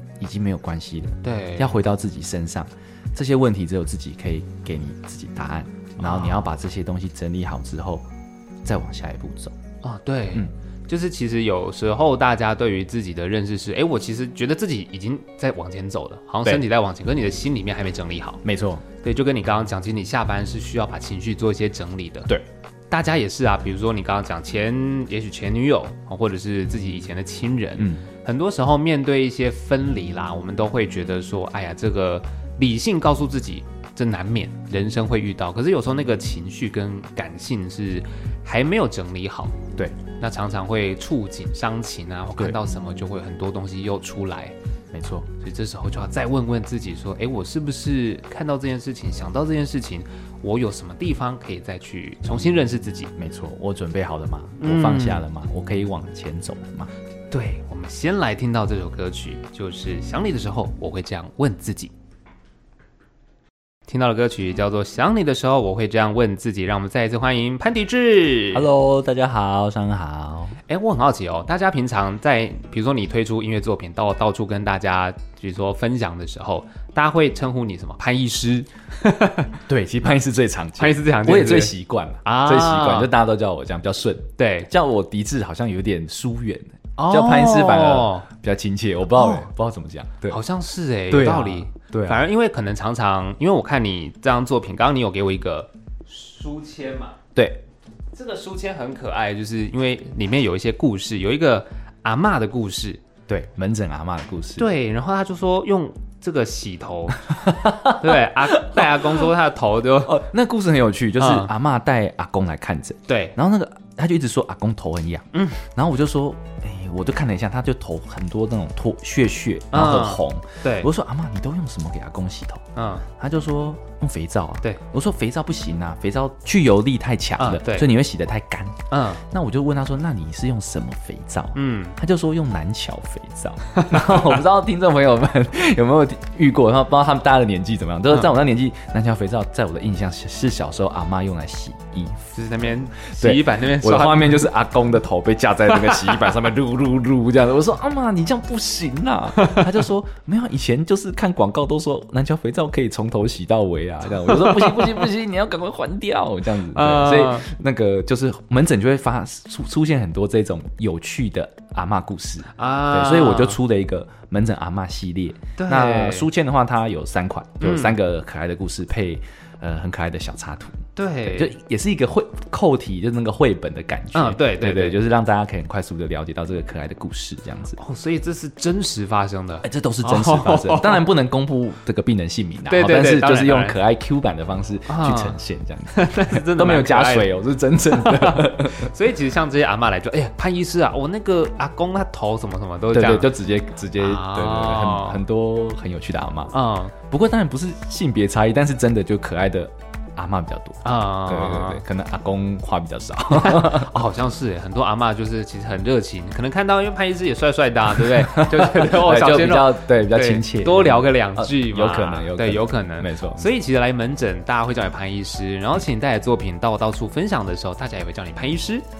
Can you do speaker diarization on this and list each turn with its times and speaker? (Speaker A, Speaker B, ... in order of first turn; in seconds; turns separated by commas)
Speaker A: 0.2-8.1, Speaker B: 1.2-1.7, Speaker B: 6.0-6.4, Speaker A: 8.6-9.6, Speaker B: 9.8-18.4, Speaker A: 18.4-18.8, Speaker B: 19.0-22.3, Speaker B: 22.9-39.5, Speaker A: 27.8-28.0, Speaker B: 40.2-44.5, Speaker A: 44.9-45.3, Speaker B: 45.4-53.1, Speaker A: 53.1-56.9, Speaker B: 54.6-55.2, Speaker B: 57.3-61.9, Speaker B: 63.9-68.7, Speaker A: 68.5-70.6, Speaker B: 70.7-79.6, Speaker A: 79.7-90.4, Speaker B: 80.8-81.7, Speaker B: 82.2-83.1, Speaker B: 84.4-84.7, Speaker B: 87.0-88.2, Speaker B: 89.2-89.5, Speaker B: 90.3-97.2, Speaker A: 91.1-92.2, Speaker A: 97.3-97.6, Speaker B: 98.1-103.0, Speaker A: 103.3-104.7, Speaker B: 104.6-110.2, Speaker A: 107.3-109.3, Speaker A: 110.0-177.8, Speaker B: 111.2-111.5, Speaker B: 113.1-113.3, Speaker B: 115.3-115.6, Speaker B: 119.7-120.9, Speaker B: 122.8-123.0, Speaker B: 127.4-127.9, Speaker B: 128.9-129.2, Speaker B: 131.5-132.0, Speaker B: 133.7-134.2, Speaker B: 142.3-144.5, Speaker B: 145.9-146.1, Speaker B: 149.4-149.6, Speaker B: 154.3-155.0, Speaker B: 156.7-157.5, Speaker B: 162.5-163.6, Speaker B: 165.6-166.3, Speaker B: 167.6-167.9, Speaker B: 170.9-171.5, Speaker B: 174.1-175.0, Speaker B: 177.8-181.0, Speaker A: 179.6-188.9, Speaker B: 182.7-183.8, Speaker B: 184.9-185.3, Speaker B: 185.9-187.3, Speaker B: 187.9-193.3, Speaker A: 192.9-203.9, Speaker B: 193.9-195.2, Speaker B: 196.5-196.9, Speaker B: 200.8-201.8, Speaker B: 203.3-218.8, Speaker A: 208.0-213.5